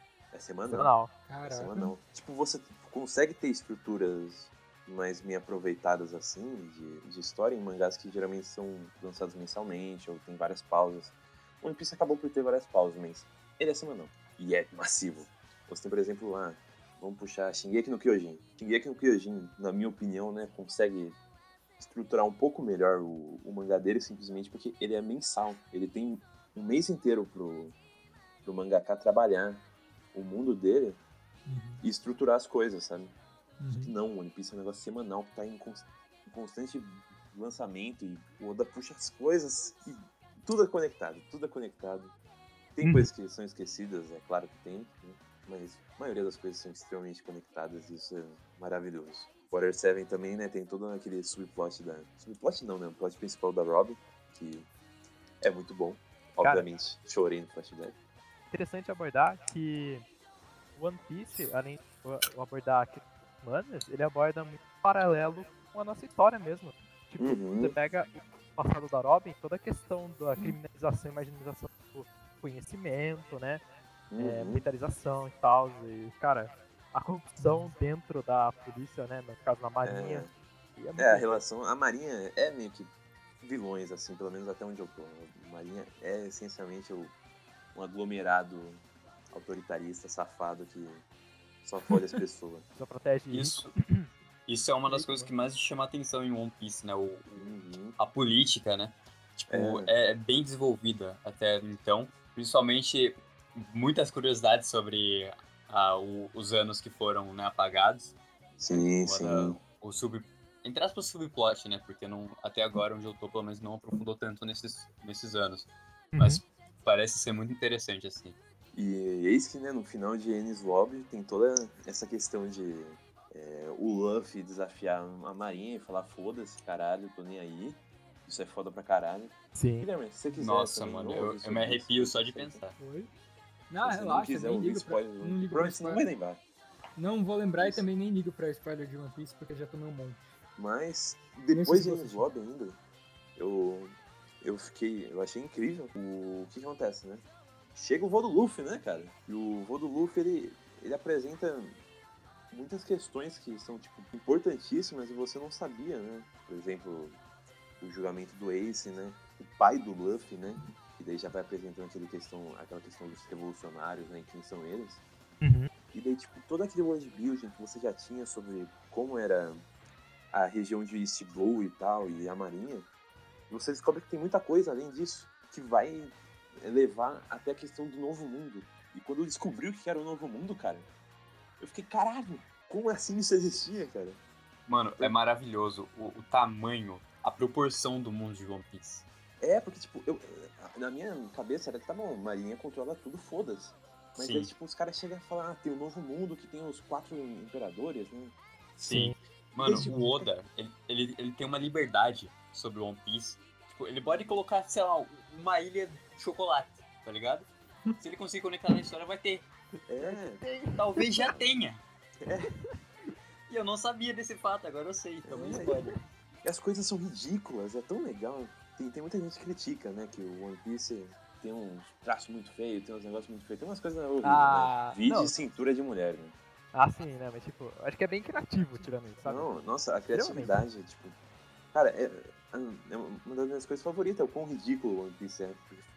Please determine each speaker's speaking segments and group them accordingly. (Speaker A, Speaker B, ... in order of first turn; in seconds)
Speaker A: 0.3-0.9, 1.4-21.2, 21.8-27.7, 28.4-31.0, 31.8-33.1, 33.8-42.1, 42.7-54.7, 55.4-58.0, 67.2-67.7, 74.1-74.6, 79.8-80.3, 81.0-87.1, 87.7-91.0, 91.6-92.6, 97.3-98.0, 99.5-99.9, 108.6-109.6, 118.7-132.6, 133.8-136.4, 137.6-137.8, 140.6-142.8, 143.4-151.8, 152.5-157.2, 157.8-165.0, 165.9-169.6, 170.3-172.9, 173.5-180.9, 181.6-184.2, 189.4-198.3, 199.6-199.9, 204.0-204.4, 209.9-210.4, 212.2-212.5, 215.2-215.9, 216.4-226.3, 229.2-231.2, 231.7-235.8
Speaker B: 0.7-1.1, 42.8-43.1, 58.5-60.0, 60.8-73.6, 74.2-81.4, 92.8-94.1, 94.9-95.3, 116.1-116.4, 129.5-129.9, 165.4-165.7, 198.8-199.2, 210.0-211.3, 215.7-215.9, 224.2-225.3, 226.7-229.5, 230.1-230.6
Speaker C: 1.2-1.9, 31.4-31.8, 33.6-33.9, 77.4-77.7, 132.8-133.1, 133.7-136.1, 137.0-140.2, 141.5-142.2, 199.8-200.1
Speaker D: 93.3-93.7, 94.5-108.2, 108.7-118.4, 130.3-132.7, 184.7-189.0, 194.2-194.5, 198.8-207.5, 208.0-209.5, 210.8-211.8, 213.5-215.9